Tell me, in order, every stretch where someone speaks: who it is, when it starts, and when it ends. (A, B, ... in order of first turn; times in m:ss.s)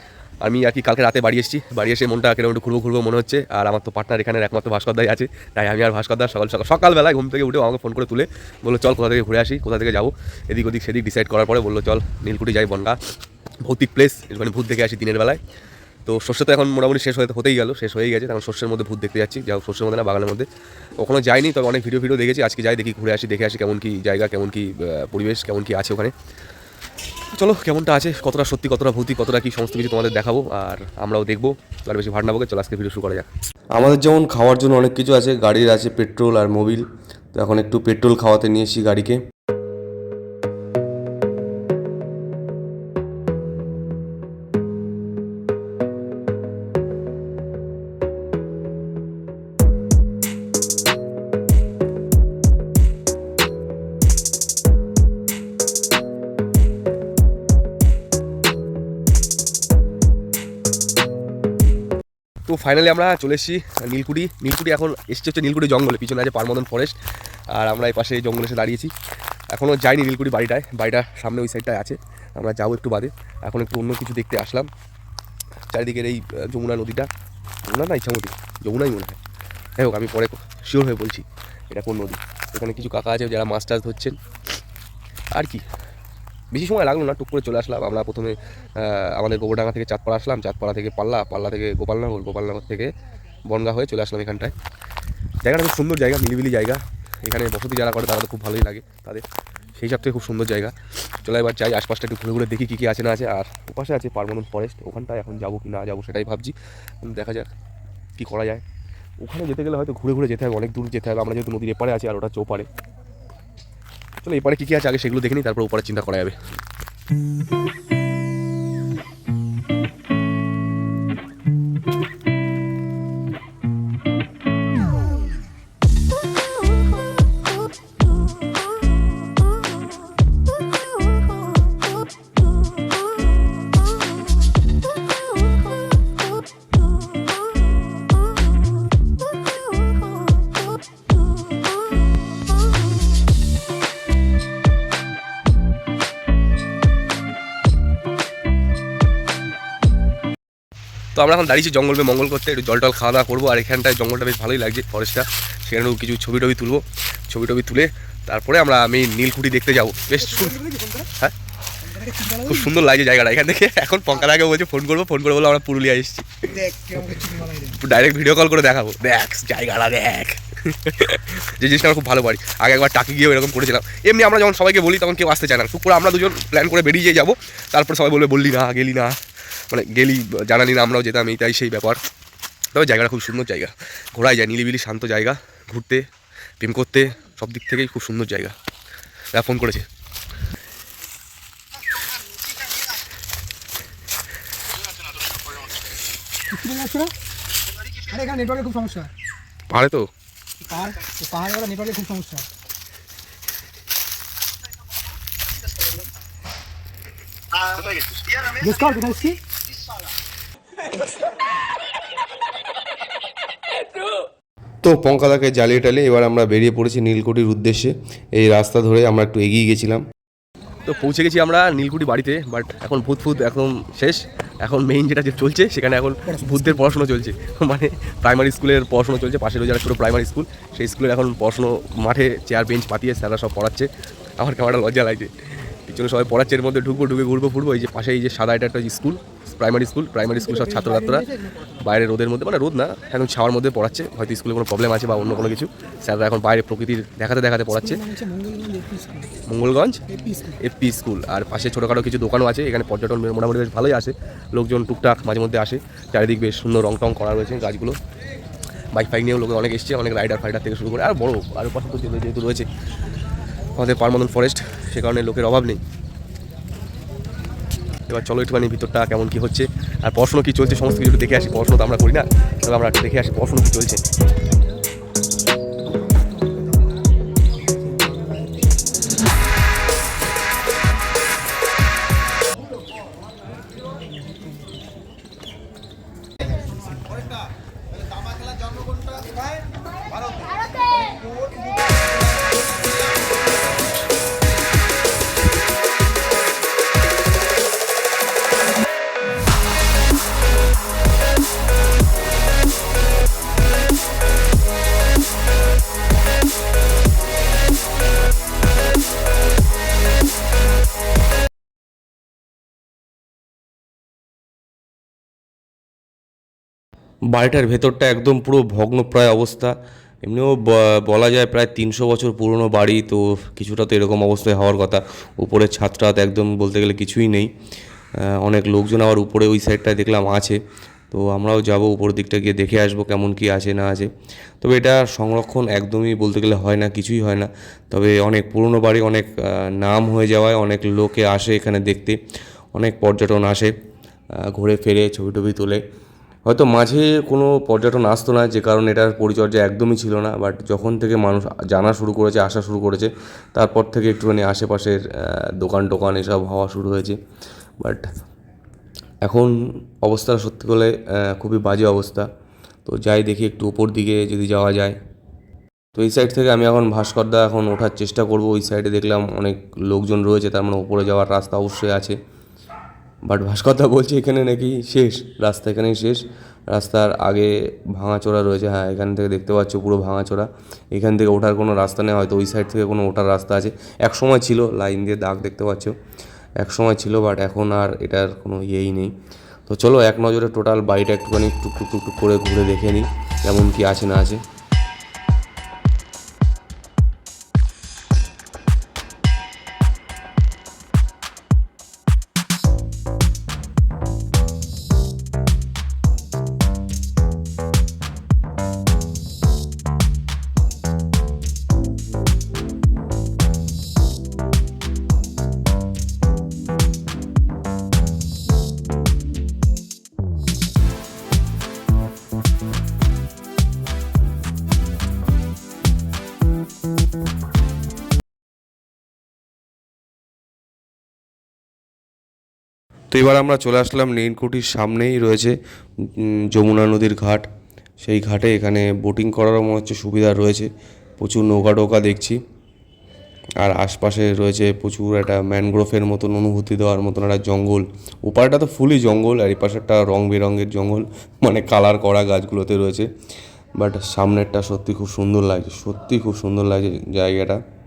0:00.4-0:13.0 A
0:13.6-0:15.4 A
0:16.1-0:20.5 A
0:21.0-0:26.1 A
0:27.3-0:33.3 A
0:33.7-0:39.2 B
1:02.5-1:07.0 A
1:07.5-1:08.9 A
1:09.5-1:14.7 A
1:15.7-1:17.1 A
1:17.6-1:19.2 A
1:19.8-1:24.2 A
1:25.3-1:25.6 A
1:26.5-1:32.9 A
1:33.5-1:34.5 A
1:35.4-1:39.2 A
1:39.8-1:47.5 A
1:48.2-1:48.6 A
1:49.2-1:52.7 A
1:54.2-1:56.4 A
2:31.1-2:41.3 A
2:42.1-2:42.5 C
2:42.1-2:59.2 A
2:47.0-2:47.6 C
2:59.7-3:02.0 A
3:02.7-3:06.1 A
3:06.6-3:08.6 A
3:09.3-3:09.9 A
3:16.5-3:17.1 C
3:17.9-3:19.1 C
3:19.7-3:20.1 A
3:20.6-3:22.5 C
3:27.7-3:29.4 C
3:34.8-3:40.0 B
3:40.8-4:08.0 A
3:46.3-3:46.6 C
4:00.6-4:01.2 C
4:07.9-4:09.3 C
4:09.5-4:18.0 A
4:10.1-4:10.6 C
4:18.9-4:22.7 A
4:23.8-4:25.8 A
4:28.1-4:34.0 A
5:17.3-5:27.5 B
5:28.3-5:30.6 B
5:31.1-5:34.1 B
5:34.6-5:42.2 B
5:42.8-5:43.7 B
5:44.4-5:45.8 B
5:46.5-5:57.2 B
5:59.2-6:02.3 B
6:02.9-6:05.0 B
6:05.9-6:12.2 B
6:13.3-6:25.9 B
6:26.6-6:29.1 B
6:29.7-6:34.4 B
7:13.1-7:17.5 B
7:18.0-7:22.4 B
7:23.6-7:33.1 B
7:33.8-7:37.6 B